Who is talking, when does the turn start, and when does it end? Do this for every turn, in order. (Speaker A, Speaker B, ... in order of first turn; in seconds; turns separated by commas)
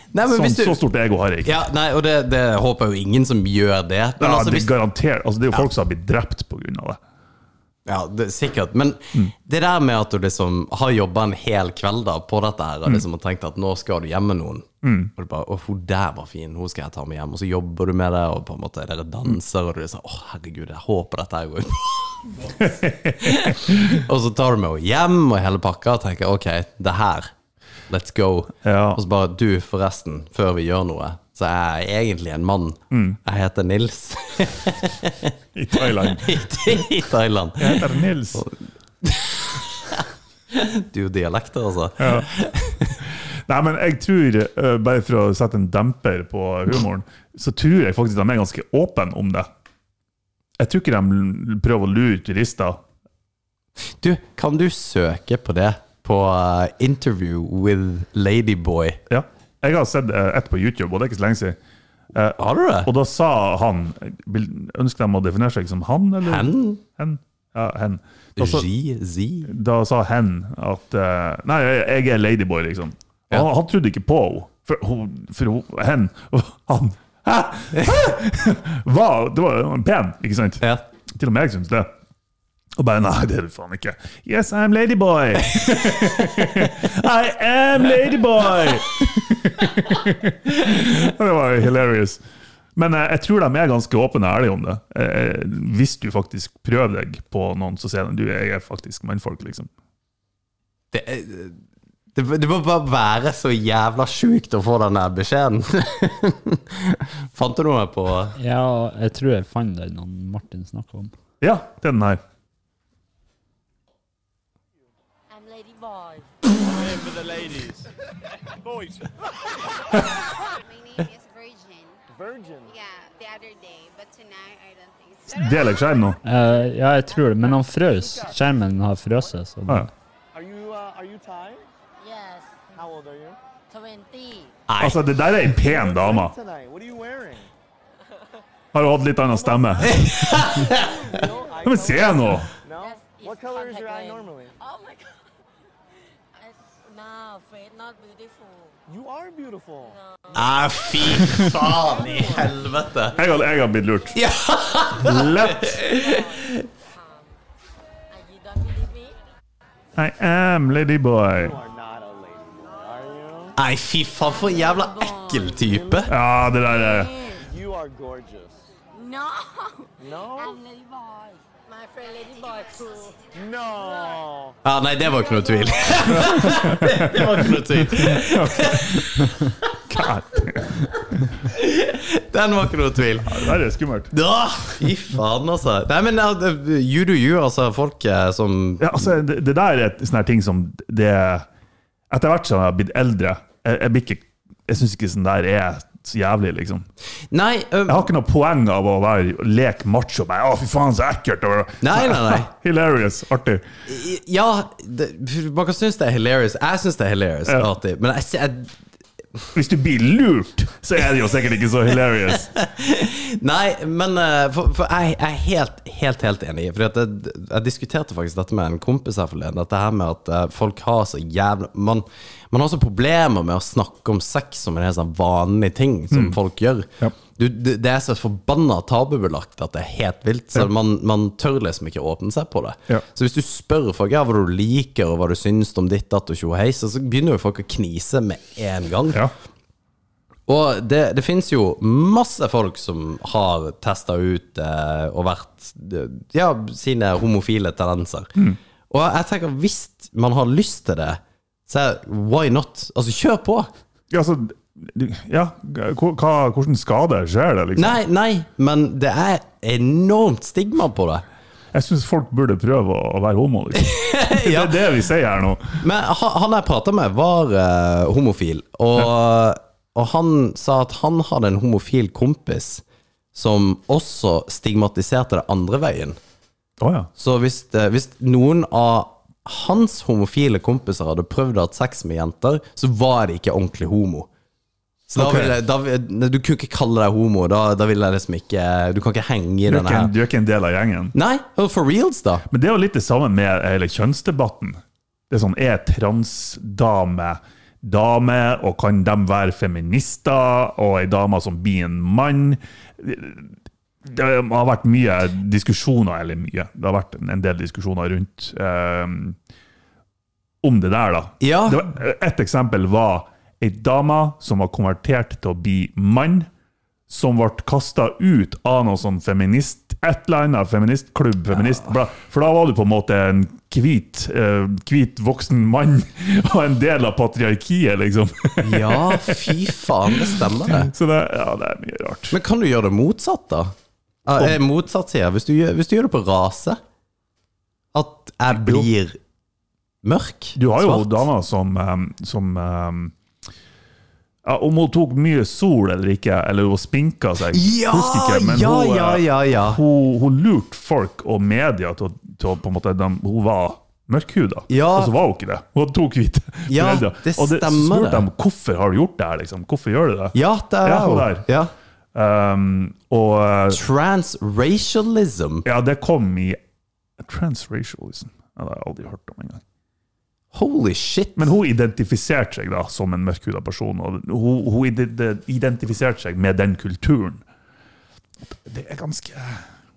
Speaker A: 0.1-0.8, Speaker B: 0.2-1.6, Speaker A: 1.4-4.7, Speaker B: 4.2-7.0, Speaker A: 7.9-27.3, Speaker B: 14.8-15.1, Speaker B: 22.6-24.0, Speaker A: 27.9-43.0, Speaker B: 28.6-29.0, Speaker B: 32.9-33.2, Speaker B: 35.5-36.7, Speaker B: 37.6-38.4, Speaker B: 42.0-42.3, Speaker B: 43.0-49.5, Speaker B: 50.6-52.8, Speaker A: 54.0-59.0, Speaker B: 59.1-61.6, Speaker B: 62.1-68.7, Speaker A: 62.4-62.9, Speaker A: 66.2-66.8, Speaker A: 68.4-69.5, Speaker B: 69.5-81.9, Speaker B: 82.8-92.2, Speaker B: 92.8-99.7, Speaker A: 100.9-101.6, Speaker A: 102.1-108.3, Speaker C: 108.4-111.1, Speaker B: 111.4-112.2, Speaker D: 115.3-116.3, Speaker E: 116.6-117.9, Speaker E: 118.5-119.3, Speaker D: 120.6-122.0, Speaker E: 122.1-122.8, Speaker D: 122.8-125.3, Speaker B: 125.3-126.2, Speaker C: 126.2-129.9, Speaker E: 127.8-128.3, Speaker E: 130.3-131.6, Speaker D: 132.0-132.5, Speaker E: 132.7-133.4, Speaker D: 133.7-134.6, Speaker A: 134.7-135.0, Speaker B: 134.8-136.3, Speaker E: 135.6-137.5, Speaker B: 138.7-140.0, Speaker E: 139.3-144.5, Speaker A: 139.8-141.2, Speaker B: 141.6-142.5, Speaker D: 142.8-145.3, Speaker D: 146.4-148.8, Speaker E: 148.9-152.5, Speaker D: 150.1-151.3, Speaker A: 150.3-153.2, Speaker B: 153.2-154.2, Speaker A: 154.1-156.7, Speaker B: 155.0-155.8, Speaker D: 155.8-157.3, Speaker D: 158.1-159.2, Speaker B: 159.9-161.6, Speaker E: 161.4-163.6, Speaker A: 163.6-166.1, Speaker D: 164.2-165.6, Speaker E: 165.6-166.1, Speaker B: 166.1-167.1, Speaker D: 166.7-167.4, Speaker E: 167.3-168.7, Speaker D: 168.9-173.3, Speaker E: 170.0-170.6, Speaker E: 173.3-174.6, Speaker D: 173.8-174.1, Speaker A: 174.6-179.5, Speaker D: 175.1-176.6, Speaker B: 176.1-179.3, Speaker B: 179.9-180.9, Speaker A: 181.4-183.4, Speaker B: 183.2-184.1, Speaker A: 184.1-189.1, Speaker B: 188.8-191.4, Speaker B: 192.1-196.8, Speaker A: 197.3-198.1, Speaker B: 197.9-203.6, Speaker A: 201.8-202.5, Speaker A: 203.9-208.7, Speaker B: 209.5-212.5, Speaker A: 212.3-239.2, Speaker A: 240.5-248.3, Speaker A: 248.9-253.7, Speaker B: 254.1-258.0, Speaker A: 257.8-261.2, Speaker B: 261.7-265.8, Speaker A: 263.8-264.8, Speaker A: 265.8-272.8, Speaker A: 273.3-276.2, Speaker B: 276.8-277.1, Speaker A: 277.2-284.3, Speaker A: 285.1-290.1, Speaker B: 285.1-285.5, Speaker B: 289.7-291.1, Speaker A: 291.1-292.4, Speaker B: 292.5-309.4, Speaker B: 310.6-316.5, Speaker A: 311.4-311.9, Speaker B: 317.1-332.4, Speaker A: 328.6-330.9, Speaker A: 332.3-333.7, Speaker A: 334.2-336.8, Speaker A: 337.9-339.2, Speaker B: 338.5-338.9, Speaker A: 340.0-341.2, Speaker B: 340.6-343.1, Speaker B: 344.4-361.5, Speaker A: 347.5-349.8, Speaker A: 354.7-355.1, Speaker A: 356.7-358.2, Speaker A: 360.3-361.7, Speaker B: 362.1-363.8, Speaker A: 363.7-365.6, Speaker B: 365.6-366.6, Speaker B: 367.2-369.6, Speaker A: 370.5-371.5, Speaker B: 371.4-377.4, Speaker B: 378.4-379.6